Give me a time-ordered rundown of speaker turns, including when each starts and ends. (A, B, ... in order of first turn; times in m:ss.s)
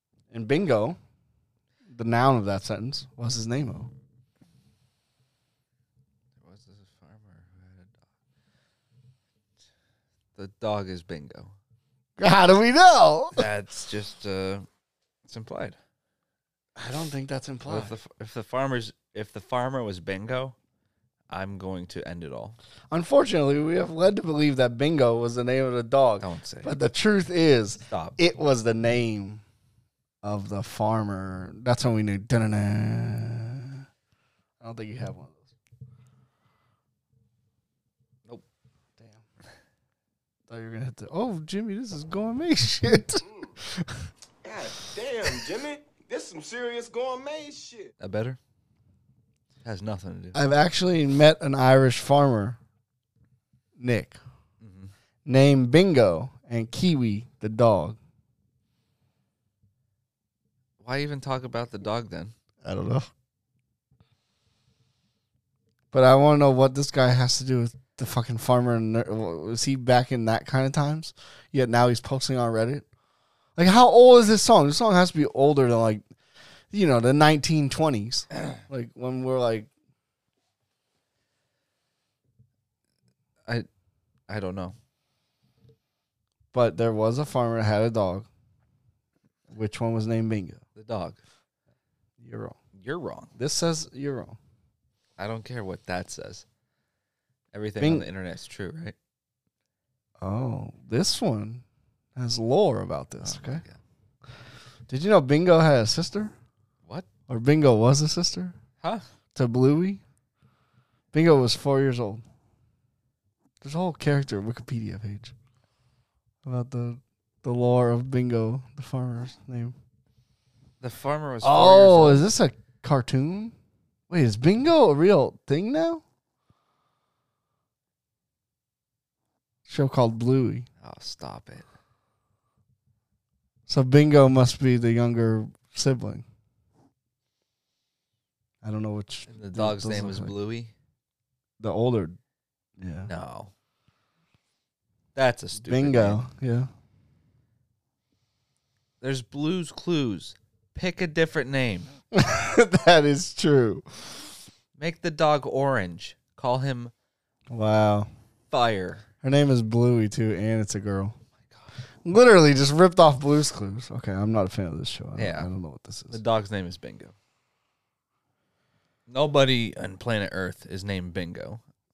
0:00.3-0:01.0 A
0:01.9-0:03.9 A
0:06.4-0:08.0 B
0:10.4-0:11.5 B
0:12.2-0:13.4 A
0:13.3-0:14.6 B
0:15.2-0:15.8 B
0:16.8-0:17.9 A
0:17.7-0:20.5 B
0:21.3-0:22.6 B
0:22.9-0:29.4 A
0:26.2-0:26.7 B
0:27.9-0:28.2 B
0:30.2-0:33.8 A
0:34.6-0:35.5 A
0:40.5-0:44.1 A
0:43.2-0:43.5 C
0:44.4-0:47.9 C
0:48.0-0:48.4 B
0:49.6-0:50.4 B
0:50.3-0:52.6 A
0:53.8-0:54.2 A
0:54.6-0:54.9 B
0:55.2-0:58.0 A
1:00.8-1:02.3 B
1:02.6-1:03.1 A
1:05.9-1:12.8 A
1:13.6-1:16.0 A
1:16.7-1:19.7 A
1:24.3-1:24.8 B
1:26.5-1:28.3 A
1:29.5-1:30.6 A
1:30.8-1:31.2 B
1:32.2-1:32.6 A
1:32.8-1:33.3 B
1:33.4-1:34.4 A
1:35.2-1:36.4 B
1:37.5-1:38.9 B
1:37.8-1:38.0 A
1:40.2-1:41.6 A
1:42.2-1:43.6 A
1:43.2-1:43.8 B
1:44.9-1:46.3 A
1:47.3-1:48.6 A
1:49.3-1:50.0 A
1:51.1-1:52.2 A
1:53.6-1:55.3 A
1:56.4-1:59.7 A
2:00.8-2:02.3 B
2:01.4-2:03.5 A
2:04.1-2:06.0 A
2:09.6-2:10.7 A
2:10.8-2:11.7 B
2:13.7-2:16.2 A
2:18.6-2:20.3 A
2:19.3-2:20.7 B
2:21.6-2:22.2 A
2:22.8-2:23.1 A
2:23.0-2:23.5 B
2:25.2-2:26.2 B
2:25.6-2:26.7 A
2:29.0-2:31.9 B
2:32.1-2:34.3 A
2:34.8-2:36.9 B
2:37.5-2:38.1 A
2:38.5-2:39.0 B
2:39.2-2:41.2 A
2:42.0-2:46.2 A
2:45.2-2:45.5 B
2:46.1-2:47.1 B
2:49.1-2:51.6 B